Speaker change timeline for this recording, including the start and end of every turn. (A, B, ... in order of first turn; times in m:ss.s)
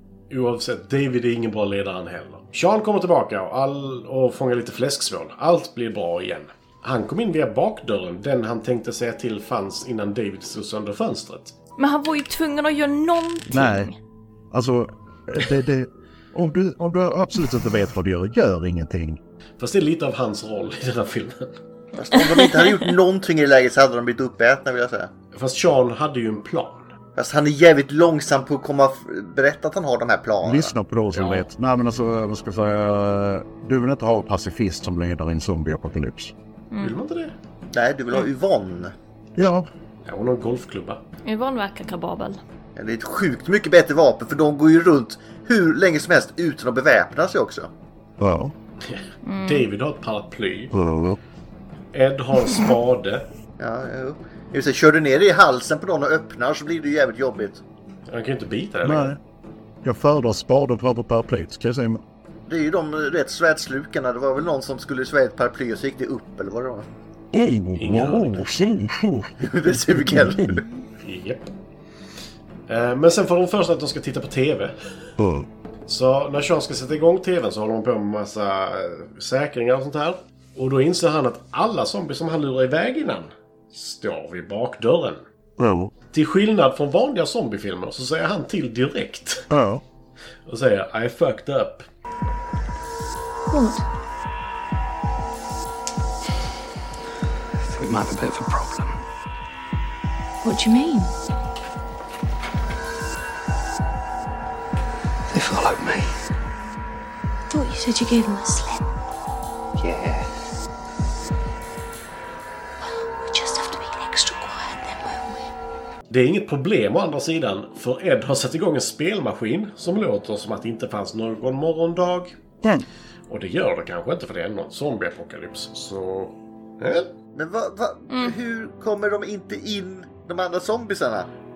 0:00.3-0:11.5 A
0:11.8-0:14.0 B
0:13.5-0:13.9 C
0:14.5-0:19.2 C
0:19.6-0:21.6 A
0:22.0-0:25.1 D
0:22.3-0:22.9 B
0:25.3-0:26.8 A
0:27.2-0:30.7 D
0:30.4-0:36.3 C
0:31.1-0:31.4 A
0:36.8-0:37.3 A
0:37.7-0:38.9 D
0:39.4-0:39.7 C
0:40.1-0:41.0 A
0:41.2-0:42.4 B
0:42.8-0:47.7 D
0:48.2-0:48.5 C
0:48.9-0:50.7 A
0:49.3-0:49.7 B
0:50.7-0:51.2 C
0:51.9-0:53.3 A
0:53.6-0:57.6 D
0:58.1-0:59.2 A
0:58.8-0:59.2 C
0:59.8-1:02.0 C
1:02.5-1:06.9 D
1:07.3-1:10.6 C
1:07.8-1:08.5 A
1:09.4-1:10.6 D
1:11.0-1:11.5 A
1:12.7-1:14.8 A
1:15.2-1:15.5 C
1:15.9-1:25.2 A
1:25.6-1:25.9 C
1:26.1-1:29.5 A
1:29.5-1:29.8 C
1:30.5-1:31.8 A
1:33.5-1:33.8 E
1:37.8-1:38.8 F
1:40.4-1:41.1 E
1:45.4-1:46.0 F
1:47.5-1:48.8 E
1:49.8-1:50.2 F
1:52.8-1:55.4 E
1:56.1-2:02.3 A
2:03.3-2:07.1 A
2:07.4-2:11.3 D